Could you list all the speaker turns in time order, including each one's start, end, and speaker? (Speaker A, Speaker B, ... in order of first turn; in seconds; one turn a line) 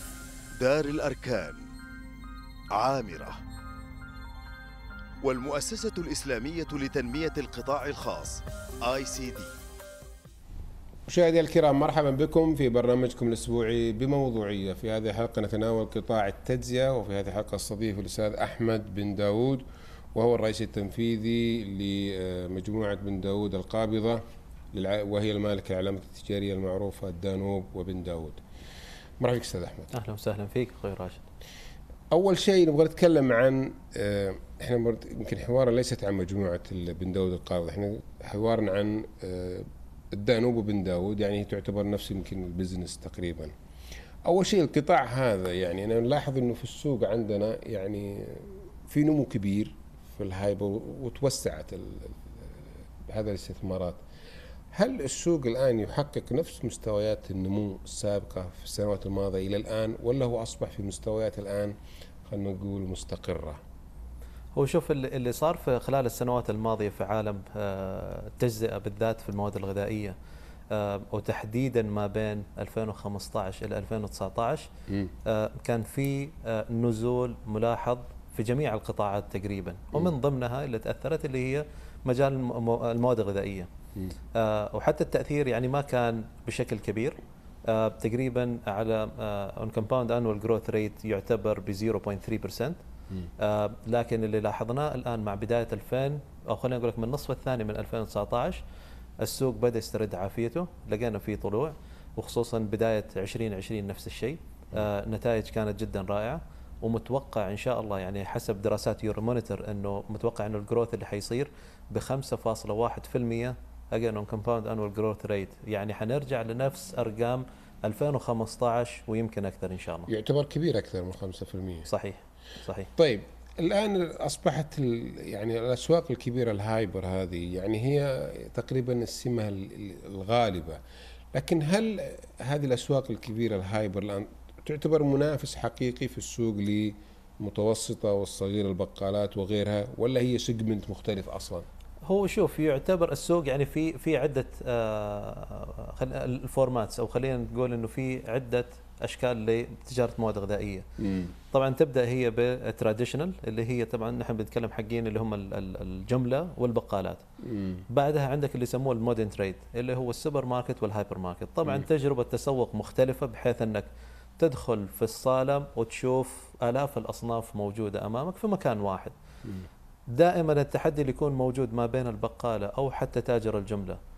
Speaker A: 0.6-1.7
Speaker A: 2.7-3.4
Speaker A: 5.2-9.6
Speaker B: 11.1-24.2
Speaker B: 24.7-28.4
Speaker B: 29.2-29.9
Speaker C: 29.9-31.2
Speaker B: 32.1-43.5
Speaker B: 44.3-54.0
Speaker B: 54.7-63.6
Speaker C: 64.6-70.2
Speaker C: 70.7-74.7
Speaker C: 75.2-83.7
Speaker C: 84.3-92.8
Speaker C: 93.4-98.6
Speaker C: 99.2-120.1
Speaker B: 120.1-121.9
Speaker C: 121.9-122.9
Speaker B: 123.0-130.8
Speaker B: 131.3-141.7
Speaker C: 142.1-150.9
Speaker B: 151.0-151.3
Speaker C: 151.5-157.2
Speaker B: 157.4-157.8
Speaker C: 157.9-163.9
Speaker C: 164.4-169.1
Speaker C: 170.1-174.0